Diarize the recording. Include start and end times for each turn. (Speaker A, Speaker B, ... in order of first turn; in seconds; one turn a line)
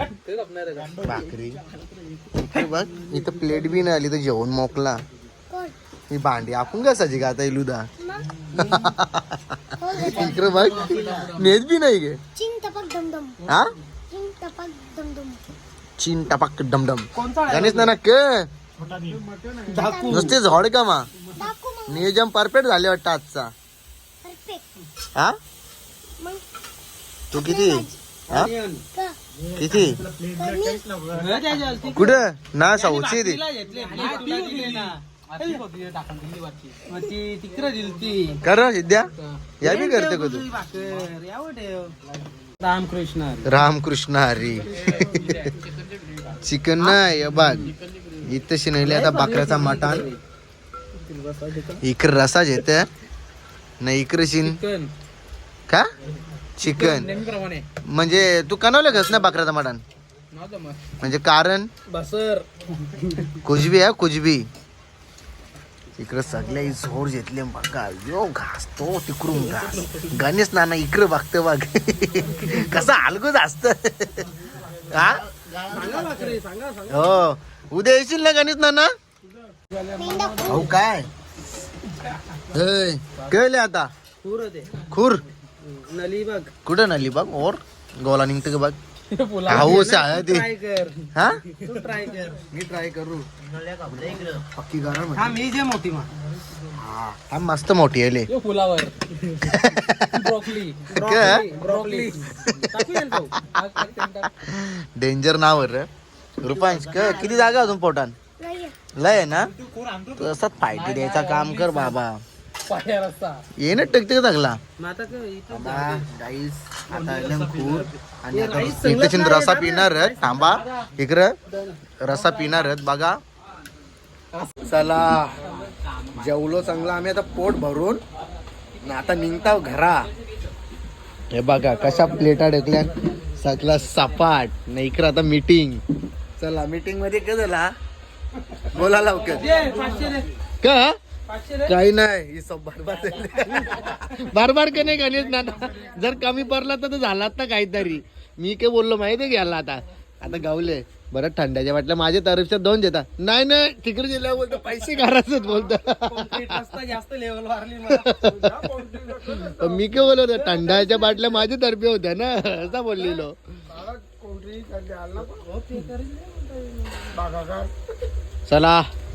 Speaker A: 0.2-1.0
Speaker B: 1.0-1.6
Speaker B: 2.3-5.0
Speaker C: 5.5-5.7
Speaker B: 6.1-7.9
Speaker C: 8.0-8.3
Speaker B: 8.6-12.2
Speaker C: 9.8-10.5
Speaker A: 10.6-11.4
Speaker D: 10.7-11.3
Speaker C: 12.3-13.6
Speaker B: 13.5-13.7
Speaker C: 14.1-15.4
Speaker B: 16.0-18.5
Speaker D: 17.1-17.9
Speaker D: 19.7-20.4
Speaker C: 19.7-20.3
Speaker B: 20.1-21.1
Speaker C: 21.3-22.1
Speaker B: 21.9-23.5
Speaker C: 24.2-24.7
Speaker B: 27.3-28.5
Speaker C: 27.3-28.0
Speaker D: 28.3-28.9
Speaker B: 29.5-30.0
Speaker C: 30.3-30.9
Speaker D: 31.1-32.2
Speaker B: 31.9-33.4
Speaker D: 32.7-35.6
Speaker A: 33.9-36.8
Speaker D: 36.9-38.4
Speaker B: 38.4-39.1
Speaker B: 39.6-40.5
Speaker D: 39.6-41.9
Speaker D: 42.6-43.5
Speaker B: 43.4-45.5
Speaker A: 44.8-46.4
Speaker B: 46.4-50.0
Speaker A: 47.6-48.0
Speaker D: 48.8-50.2
Speaker D: 51.0-51.8
Speaker B: 51.8-52.9
Speaker B: 53.8-54.6
Speaker A: 54.5-54.9
Speaker B: 56.6-57.1
Speaker A: 56.6-57.6
Speaker B: 57.8-59.8
Speaker A: 60.3-60.8
Speaker B: 61.0-61.7
Speaker D: 61.9-63.3
Speaker B: 63.4-64.5
Speaker B: 66.0-74.3
Speaker B: 74.9-75.2
Speaker D: 75.6-77.2
Speaker B: 76.9-78.9
Speaker C: 79.9-80.7
Speaker B: 80.4-81.1
Speaker B: 82.5-83.9
Speaker D: 84.2-84.8
Speaker B: 84.9-85.2
Speaker D: 85.6-86.5
Speaker B: 86.6-88.8
Speaker A: 89.1-89.7
Speaker B: 89.5-90.5
Speaker D: 89.5-92.4
Speaker B: 91.1-91.4
Speaker B: 92.5-93.3
Speaker B: 93.8-95.4
Speaker D: 95.1-96.1
Speaker B: 96.8-98.3
Speaker A: 98.3-99.0
Speaker B: 99.4-100.3
Speaker A: 100.1-100.8
Speaker D: 100.9-103.3
Speaker B: 100.9-101.5
Speaker A: 101.5-102.2
Speaker B: 102.4-102.8
Speaker A: 103.5-104.3
Speaker B: 103.8-105.9
Speaker B: 106.4-108.2
Speaker C: 108.4-108.8
Speaker B: 108.9-109.5
Speaker B: 110.1-112.2
Speaker A: 110.8-111.9
Speaker A: 112.7-113.4
Speaker B: 113.6-114.6
Speaker D: 114.8-116.0
Speaker B: 115.5-121.3
Speaker D: 117.3-117.7
Speaker D: 118.3-120.9
Speaker D: 121.5-121.8
Speaker B: 122.0-123.2
Speaker B: 124.6-125.4
Speaker B: 126.1-128.0
Speaker B: 128.8-130.1
Speaker B: 131.3-135.8
Speaker B: 136.4-137.7
Speaker B: 138.7-139.4
Speaker D: 139.3-140.3
Speaker B: 140.6-140.9
Speaker D: 141.3-141.8
Speaker B: 141.7-156.4
Speaker D: 156.0-158.9
Speaker B: 157.9-163.4
Speaker D: 160.3-161.5
Speaker D: 165.1-166.9
Speaker B: 168.5-168.9